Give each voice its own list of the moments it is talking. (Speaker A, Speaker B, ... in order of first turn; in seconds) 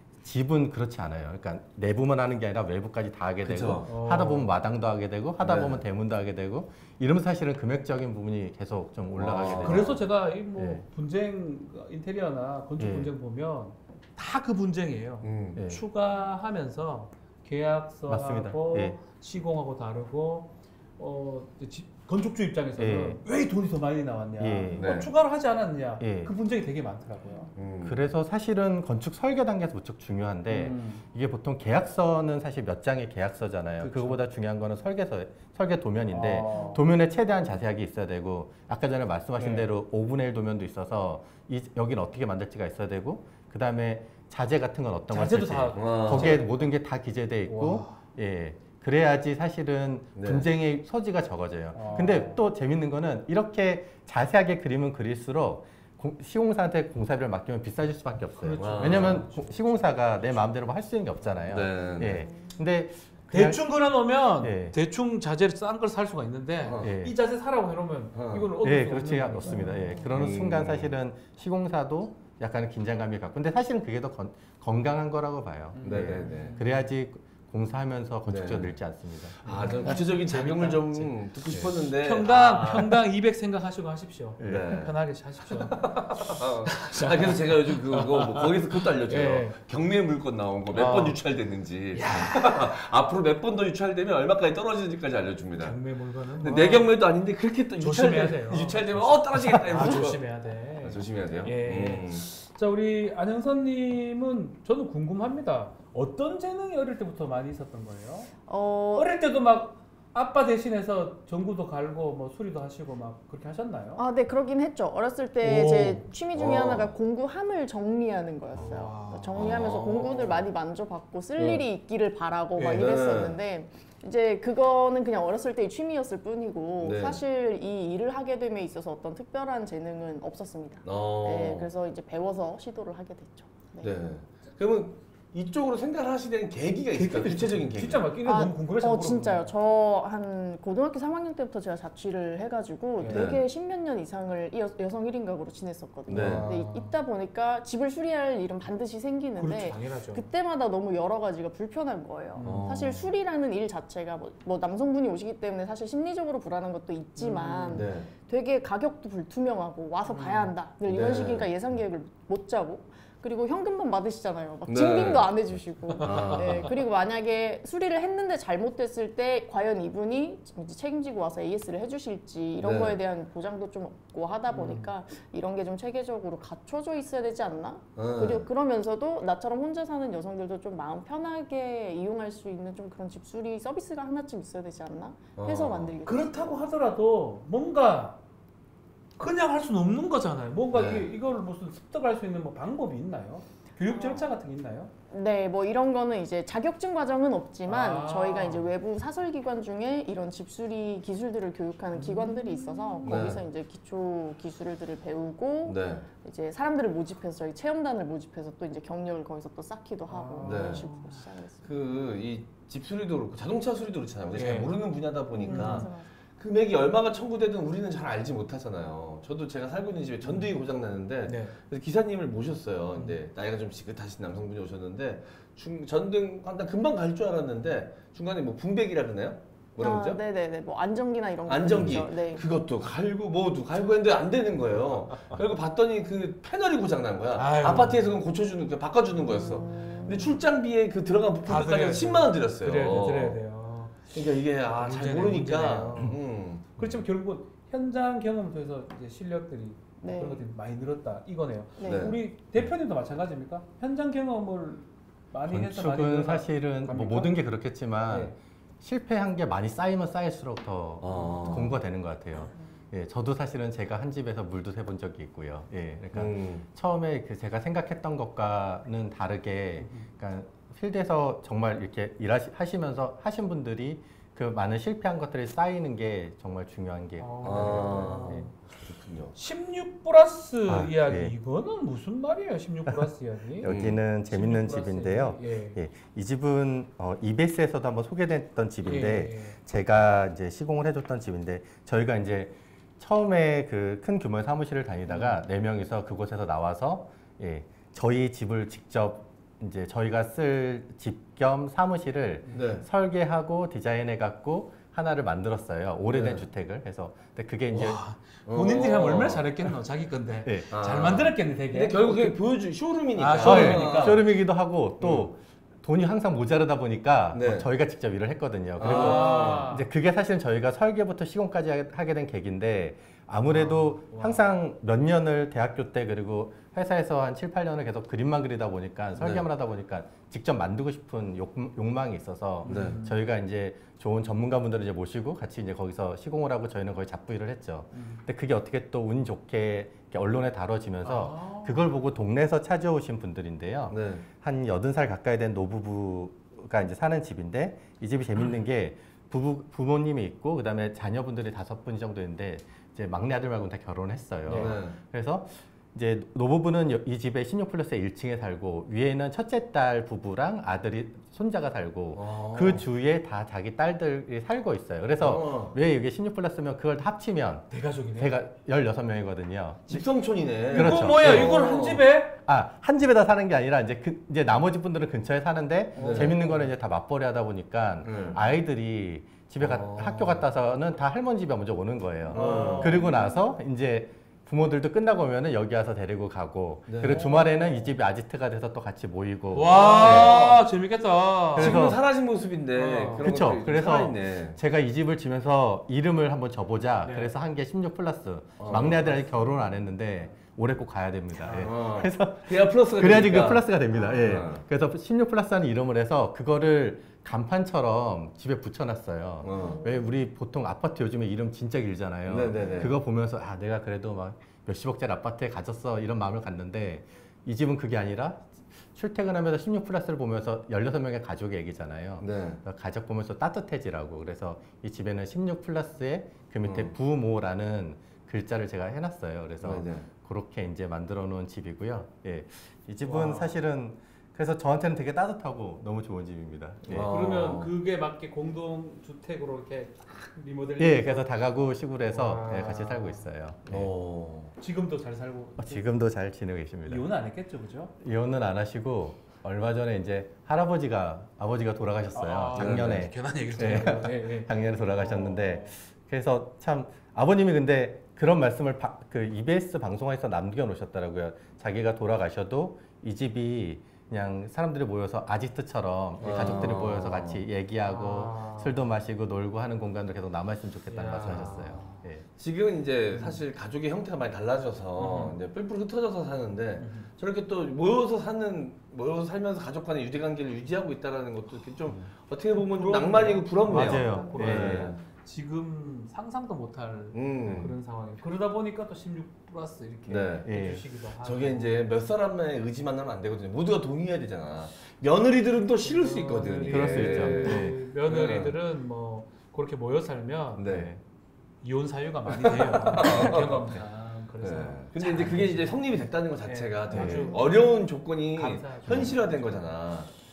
Speaker A: 0.2-10.0, 10.6-10.8, 12.8-13.1, 15.6-15.8, 18.1-19.0, 22.8-23.2, 24.4-24.9, 26.0-26.3, 27.8-63.6, 64.4-64.8, 66.8-67.2, 68.6-79.8, 84.4-84.7, 255.5-278.4, 280.7-281.4, 283.6-308.0, 310.4-310.7, 313.4-370.1, 370.7-371.7, 372.4-390.4, 391.5-392.0, 393.2-437.1, 440.8-443.9, 445.6-447.1, 448.0-472.2, 483.7-484.9, 490.4-490.8, 496.7-497.8, 500.6-501.0
Speaker B: 3.4-3.9, 5.4-5.8, 9.2-10.0, 15.2-15.6, 24.8-25.1, 27.6-28.0, 45.7-46.4, 50.2-50.5, 58.6-59.3, 61.5-62.3, 66.6-66.9, 68.1-68.5, 70.1-70.9, 75.8-76.6, 78.3-78.8, 79.4-83.0, 84.5-84.9, 85.7-95.8, 96.3-100.2, 100.8-102.2, 116.3-116.9, 119.3-120.5, 121.4-121.6, 122.6-123.4, 126.8-127.2, 130.8-131.7, 133.8-138.1, 143.1-143.4, 146.1-146.5, 152.4-153.1, 157.7-158.1, 160.8-161.5, 164.7-165.3, 166.0-166.7, 172.6-173.0, 178.0-178.5, 185.4-185.9, 190.7-191.1, 203.0-203.4, 205.7-206.1, 210.4-210.8, 211.6-230.2, 231.5-243.4, 244.1-246.8, 251.8-252.2, 261.0-261.7, 266.1-266.6, 277.4-279.3, 283.6-284.0, 302.5-302.9, 306.1-306.4, 308.5-309.4, 310.7-314.2, 315.0-315.3, 317.3-317.7, 318.8-319.7, 329.2-329.5, 332.7-333.0, 343.9-344.2, 354.5-355.0, 362.1-362.8, 365.2-365.8, 369.9-372.0, 376.0-376.3, 378.0-378.4, 379.6-380.4, 382.3-383.1, 386.9-387.3, 389.7-390.6, 391.6-394.6, 398.6-399.1, 401.5-403.7, 404.2-404.6, 409.4-409.8, 412.3-412.9, 422.2-422.6, 426.6-426.9, 429.6-430.1, 436.9-437.7, 443.7-444.5, 452.6-453.1, 466.2-467.4, 471.2-471.5, 472.4-485.0, 487.1-487.7, 490.1-490.5, 491.2-498.6, 500.6-500.9, 502.3-503.7, 504.4-510.1
Speaker C: 3.9-4.5, 9.6-27.5, 30.5-31.0, 33.8-34.2, 36.1-36.8, 39.4-39.7, 45.1-46.6, 47.5-48.0, 51.7-52.4, 58.4-60.0, 63.3-70.1, 75.7-76.9, 79.5-89.6, 90.7-91.2, 91.9-92.8, 95.6-96.9, 97.8-108.3, 109.0-114.0, 115.4-116.1, 118.5-119.4, 136.9-139.5, 143.0-143.3, 146.1-146.9, 149.4-150.2, 152.4-153.1, 157.2-157.9, 160.1-160.5, 165.9-166.7, 174.5-174.9, 186.1-188.2, 189.2-194.9, 197.7-198.7, 201.9-203.3, 210.1-211.2, 214.3-214.8, 215.4-215.9, 220.2-220.5, 221.3-221.6, 222.9-223.2, 237.3-238.1, 241.4-246.2, 246.8-257.4, 258.1-258.4, 261.1-261.7, 269.8-270.1, 277.2-278.5, 279.3-285.8, 288.9-289.6, 295.1-295.4, 307.7-312.4, 313.1-314.2, 318.8-319.9, 323.5-324.4, 332.6-333.2, 337.9-338.2, 341.0-341.8, 354.5-354.8, 367.7-368.3, 370.7-372.4, 375.9-376.7, 382.3-383.4, 387.0-387.5, 389.5-392.0, 392.7-393.4, 397.0-397.3, 398.7-399.6, 401.4-401.7, 409.5-409.9, 433.0-433.5, 436.9-441.3, 442.1-443.3, 444.6-445.9, 446.9-447.9, 452.1-455.7, 466.2-466.9, 467.9-468.8, 470.9-472.0, 473.1-473.4, 475.0-475.4, 476.8-477.1, 482.5-491.7, 495.8-500.9, 501.6-509.8
Speaker D: 36.5-36.8, 108.5-109.1, 114.0-133.9, 138.2-186.6, 193.9-194.3, 195.1-211.7, 215.3-216.1, 229.8-232.4, 239.2-240.3, 250.0-250.4, 251.8-252.1, 506.9-507.4